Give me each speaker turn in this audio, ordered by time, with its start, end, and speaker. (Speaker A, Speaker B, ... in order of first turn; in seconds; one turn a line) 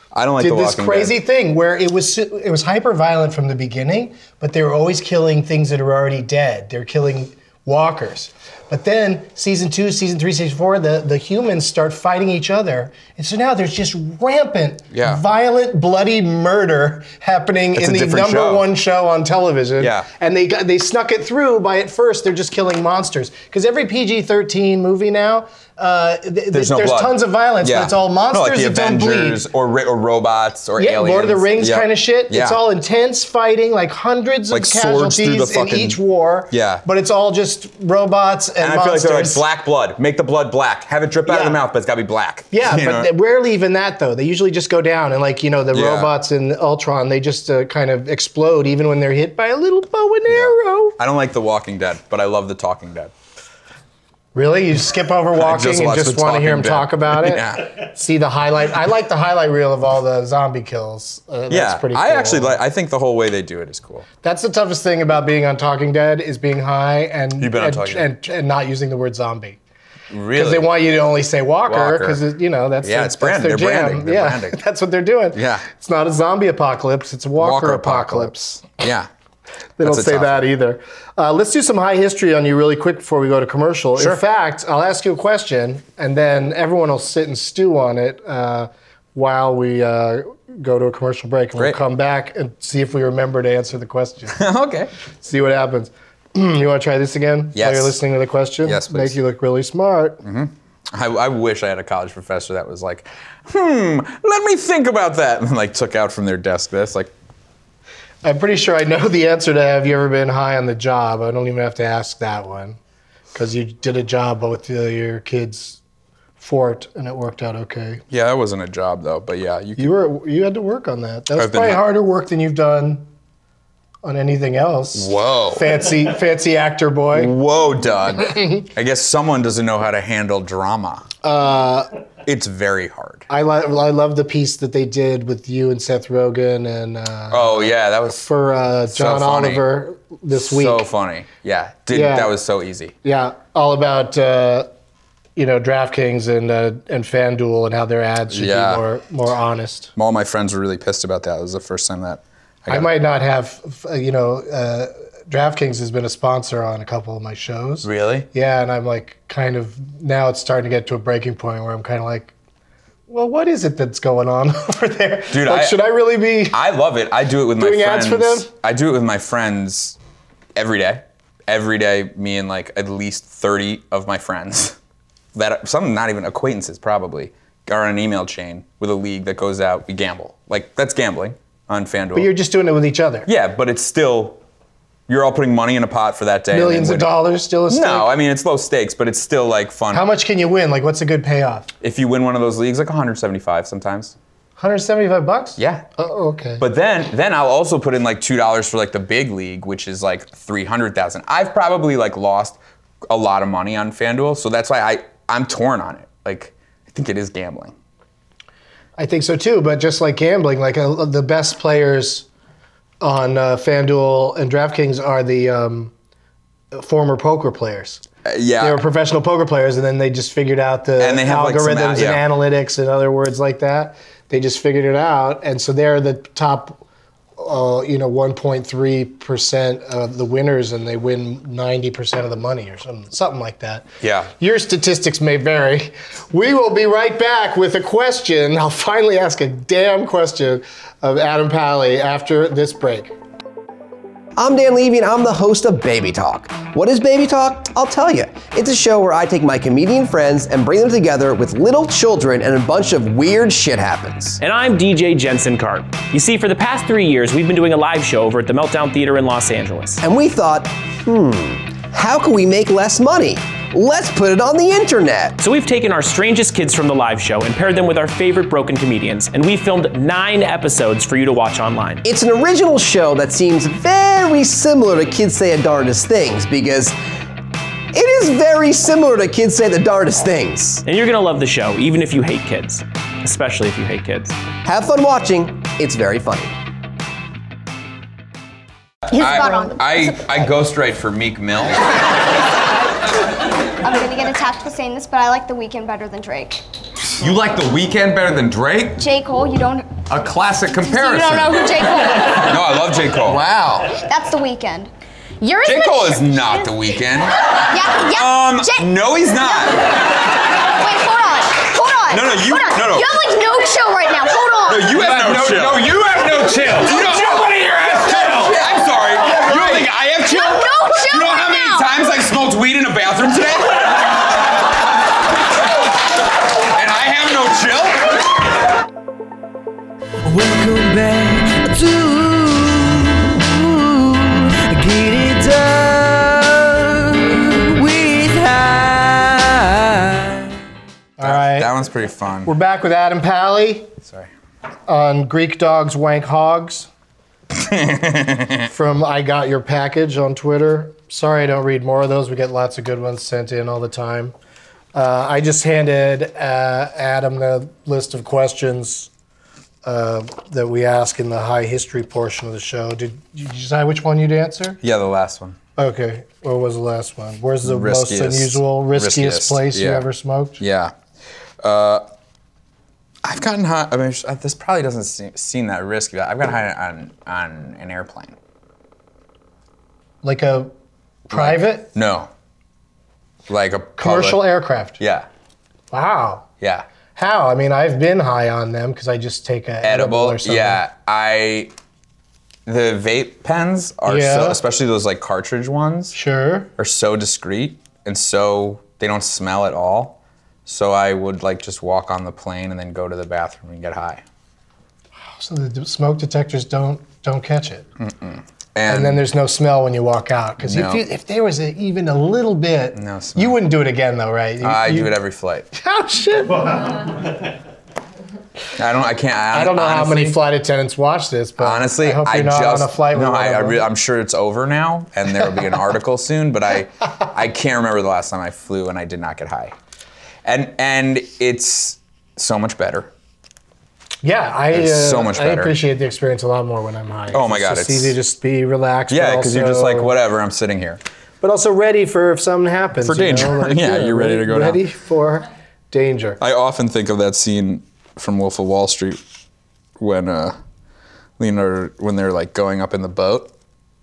Speaker A: 0.1-1.2
Speaker B: 0.4-29.4
Speaker A: 14.9-15.2
Speaker A: 17.8-18.7
Speaker A: 19.8-20.1
Speaker A: 26.5-32.6
Speaker B: 30.8-39.4
Speaker A: 34.5-36.8
Speaker A: 38.6-43.1
Speaker B: 41.3-41.6
Speaker B: 42.5-51.0
Speaker A: 45.7-46.1
Speaker A: 50.3-53.1
Speaker B: 54.4-62.6
Speaker A: 55.4-57.7
Speaker A: 61.5-64.1
Speaker B: 64.2-69.6
Speaker A: 67.4-68.1
Speaker A: 70.1-70.7
Speaker B: 70.3-78.7
Speaker A: 71.7-72.2
Speaker A: 72.8-74.6
Speaker A: 75.3-75.7
Speaker A: 77.4-79.1
Speaker B: 79.8-94.4
Speaker A: 79.8-80.5
Speaker A: 84.0-84.2
Speaker A: 91.5-91.8
Speaker A: 94.3-94.9
Speaker B: 95.2-100.2
Speaker A: 97.5-98.0
Speaker A: 98.6-99.2
Speaker A: 100.2-107.1
Speaker B: 108.2-112.8
Speaker B: 113.3-115.8
Speaker B: 116.4-118.0
Speaker A: 118.1-119.9
Speaker B: 119.8-123.1
Speaker A: 121.4-121.8
Speaker B: 124.0-127.3
Speaker A: 124.9-125.9
Speaker A: 127.1-131.1
Speaker B: 131.2-131.9
Speaker A: 132.2-133.3
Speaker B: 133.3-140.8
Speaker A: 137.3-138.3
Speaker A: 138.9-139.7
Speaker A: 140.3-142.9
Speaker B: 141.9-142.3
Speaker B: 143.0-144.7
Speaker B: 145.4-149.9
Speaker A: 148.3-148.8
Speaker A: 150.0-152.9
Speaker B: 152.7-162.3
Speaker A: 157.8-158.3
Speaker B: 163.1-166.6
Speaker A: 165.3-165.8
Speaker A: 166.5-170.0
Speaker B: 167.6-168.5
Speaker A: 170.6-174.8
Speaker A: 175.3-182.3
Speaker B: 182.2-183.3
Speaker A: 183.2-184.4
Speaker A: 185.1-187.2
Speaker B: 186.5-188.1
Speaker A: 187.7-190.1
Speaker B: 189.9-191.7
Speaker A: 191.8-194.2
Speaker B: 194.6-196.6
Speaker A: 195.6-195.9
Speaker A: 196.6-207.8
Speaker B: 209.0-212.3
Speaker B: 213.0-215.9
Speaker B: 216.7-218.0
Speaker A: 218.2-218.8
Speaker B: 218.6-226.8
Speaker A: 221.0-222.2
Speaker B: 227.4-233.9
Speaker A: 234.0-234.3
Speaker B: 234.4-243.1
Speaker C: 244.4-254.4
Speaker D: 254.4-260.0
Speaker C: 260.0-265.4
Speaker D: 265.4-272.0
Speaker C: 272.0-276.9
Speaker C: 277.9-280.8
Speaker D: 280.9-284.4
Speaker C: 284.6-286.5
Speaker E: 289.1-290.2
Speaker A: 289.1-292.0
Speaker E: 293.8-296.6
Speaker A: 297.2-299.0
Speaker E: 299.0-300.1
Speaker A: 300.1-301.7
Speaker E: 300.8-302.6
Speaker A: 302.4-304.0
Speaker E: 303.9-306.6
Speaker A: 305.6-309.9
Speaker E: 307.7-308.9
Speaker E: 309.4-309.8
Speaker E: 310.7-315.1
Speaker A: 312.1-313.1
Speaker A: 314.7-324.7
Speaker F: 315.1-318.6
Speaker E: 319.6-321.9
Speaker A: 326.6-328.1
Speaker F: 330.3-333.4
Speaker D: 330.4-331.6
Speaker F: 334.7-336.3
Speaker D: 335.0-335.8
Speaker F: 337.6-339.5
Speaker B: 341.2-341.7
Speaker A: 341.2-342.5
Speaker B: 342.4-343.9
Speaker A: 344.0-344.3
Speaker B: 344.9-346.9
Speaker A: 347.5-348.7
Speaker B: 348.7-354.4
Speaker B: 354.9-359.1
Speaker B: 359.9-364.8
Speaker A: 364.8-365.6
Speaker B: 365.8-370.6
Speaker A: 367.6-370.1
Speaker A: 370.6-371.0
Speaker A: 371.6-372.1
Speaker A: 373.2-378.4
Speaker B: 380.2-380.7
Speaker B: 381.3-381.9
Speaker A: 381.3-382.3
Speaker A: 383.5-384.4
Speaker B: 384.0-385.0
Speaker A: 385.0-385.3
Speaker B: 385.9-386.5
Speaker A: 386.6-386.9
Speaker B: 387.2-390.8
Speaker A: 389.8-391.7
Speaker A: 392.7-396.2
Speaker B: 394.1-394.6
Speaker B: 396.1-396.7
Speaker A: 396.8-404.2
Speaker B: 405.4-407.9
Speaker A: 408.0-409.2
Speaker B: 408.9-415.1
Speaker A: 410.6-411.1
Speaker A: 412.9-413.6
Speaker A: 414.6-415.7
Speaker B: 415.7-417.0
Speaker A: 418.8-420.4
Speaker B: 419.5-423.8
Speaker A: 421.6-429.8
Speaker A: 430.4-433.1
Speaker B: 434.2-440.1
Speaker A: 434.7-435.8
Speaker A: 437.3-438.2
Speaker A: 439.1-441.0
Speaker B: 441.4-446.4
Speaker A: 443.0-444.9
Speaker A: 446.4-449.2
Speaker A: 450.0-450.6
Speaker A: 451.4-453.5